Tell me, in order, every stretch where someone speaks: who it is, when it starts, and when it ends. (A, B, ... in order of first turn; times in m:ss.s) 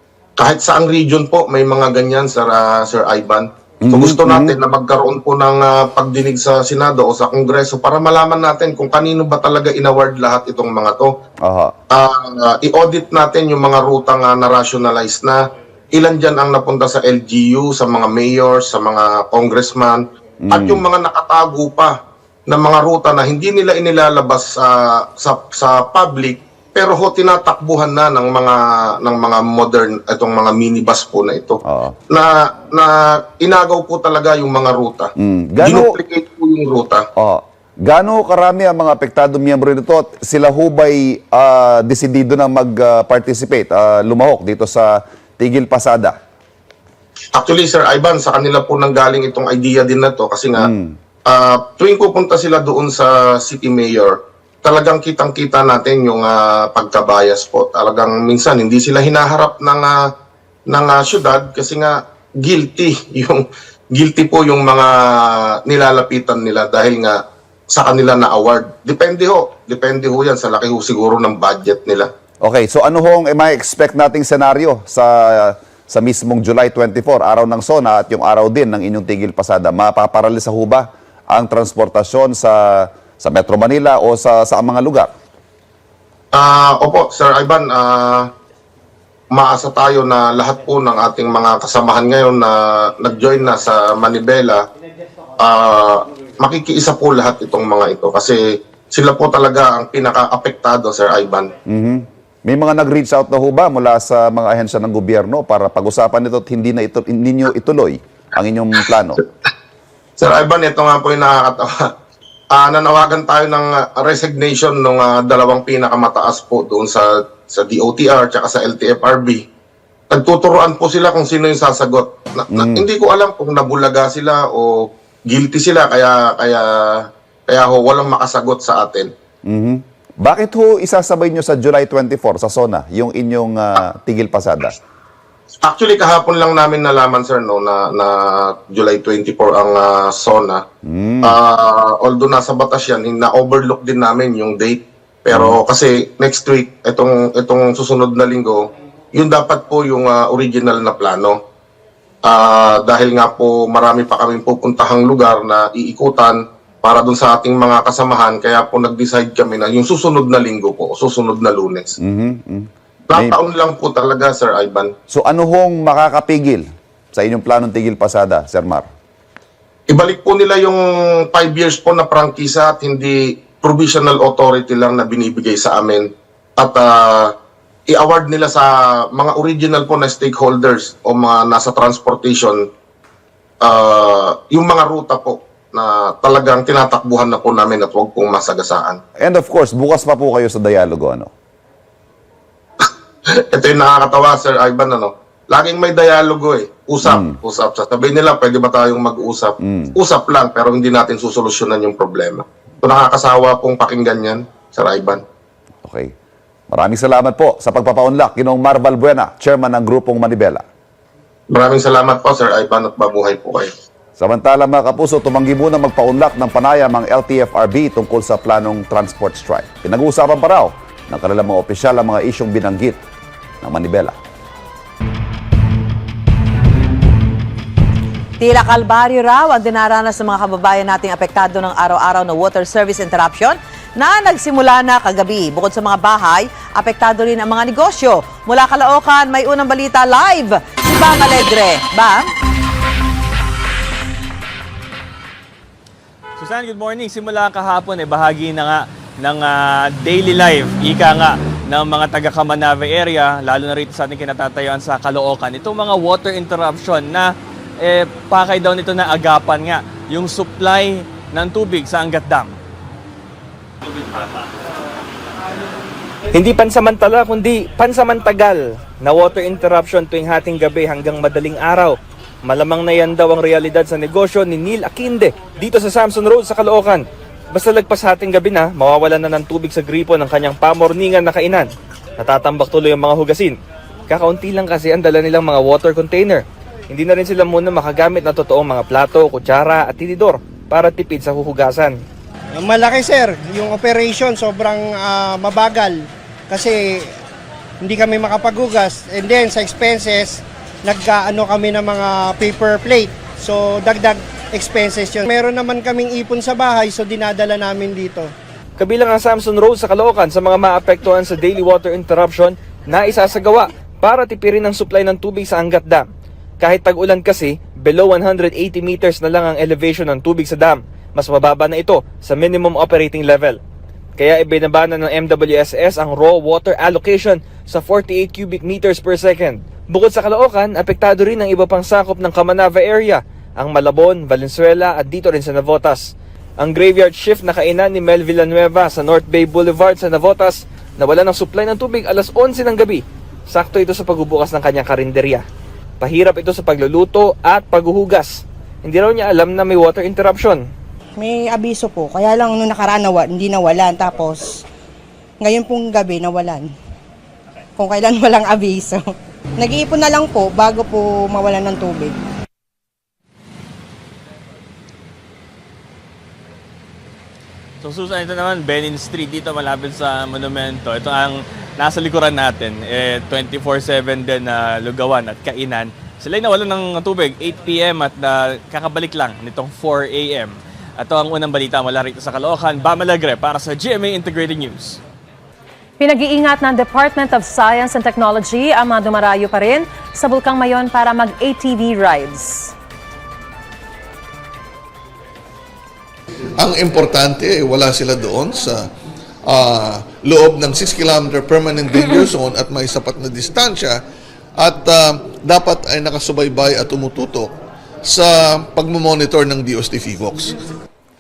0:00.4-0:11.1 A
0:03.8-0:04.6 B
0:11.4-0:11.7 B
0:11.9-0:15.4 A
0:15.9-0:37.0 A
0:20.4-0:20.8 B
0:31.6-0:31.9 B
0:35.2-0:36.0 B
0:37.2-0:46.2 B
0:47.4-0:50.7 A
0:50.6-0:50.9 B
0:51.2-0:59.9 A
1:00.7-1:03.4 A
1:03.9-1:12.1 A
1:12.4-1:25.1 B
1:26.3-1:28.2 A
1:29.3-1:34.6 A
1:35.4-1:41.5 A
1:41.7-1:49.2 B
1:50.2-1:51.8 A
1:52.5-1:59.4 A
2:00.1-2:06.6 A
2:02.5-2:02.9 B
2:07.5-2:09.1 A
2:09.4-2:14.7 B
2:15.6-2:20.6 A
2:20.8-2:21.4 B
2:21.2-2:31.4 A
2:25.3-2:25.6 B
2:32.2-2:41.9 A
2:42.0-2:43.4 B
2:43.1-2:44.9 A
2:45.1-2:48.9 B
2:49.9-2:57.3 A
2:57.9-3:02.6 A
3:03.6-3:09.0 A
3:09.2-3:11.3 B
3:12.8-3:25.2 A
3:17.0-3:17.3 B
3:19.6-3:19.9 B
3:25.8-3:26.1 B
3:26.7-3:30.6 B
3:31.5-3:33.7 A
3:34.2-3:43.0 B
3:43.6-3:44.2 B
3:48.4-4:02.3 C
4:06.4-4:22.6 D
4:26.3-4:31.9 E
4:32.4-4:41.7 E
4:42.2-4:43.6 E
4:44.1-4:52.0 E
4:52.6-4:57.0 F
4:57.8-5:08.3 F
5:08.8-5:16.0 E
5:16.6-5:23.6 E
5:24.2-5:45.4 E
5:46.0-5:50.6 E
5:51.2-5:54.6 G
5:55.4-5:56.7 G
5:57.8-6:02.2 G
6:07.8-6:25.0 D
6:26.0-6:32.7 H
6:36.6-6:38.8 I
6:39.4-6:44.0 I
6:44.6-6:47.5 I
6:48.0-6:50.5 I